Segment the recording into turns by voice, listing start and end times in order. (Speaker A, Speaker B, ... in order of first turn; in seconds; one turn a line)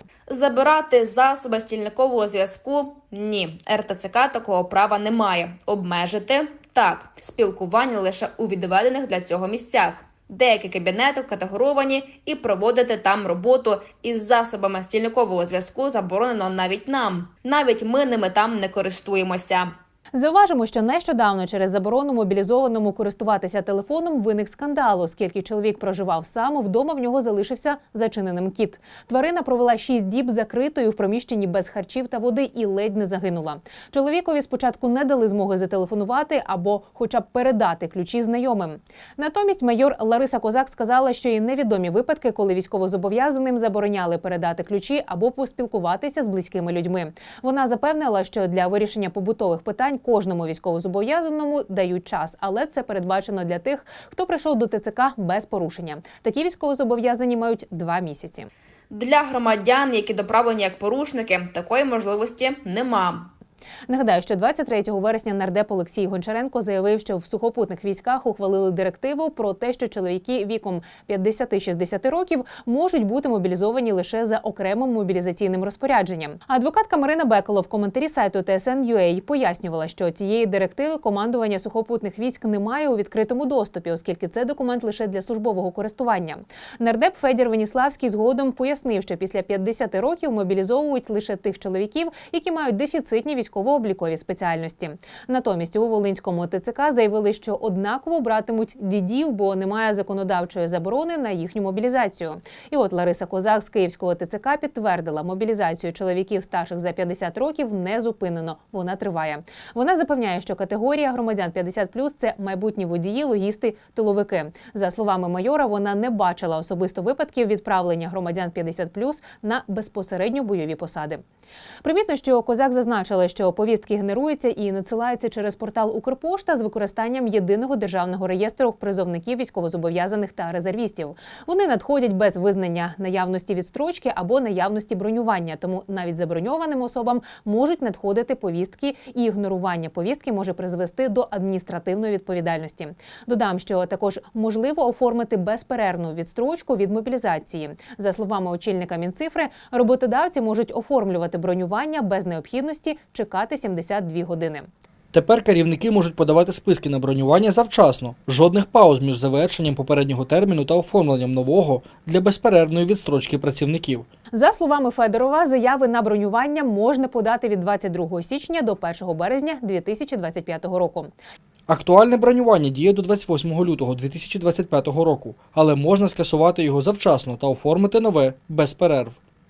Speaker A: 0.3-19.7
Speaker B: 20.1-58.5
Speaker A: 58.9-63.3
Speaker B: 63.9-121.2
Speaker B: 121.8-154.7
Speaker C: 155.1-164.1
Speaker B: 164.3-171.1
Speaker C: 171.7-179.2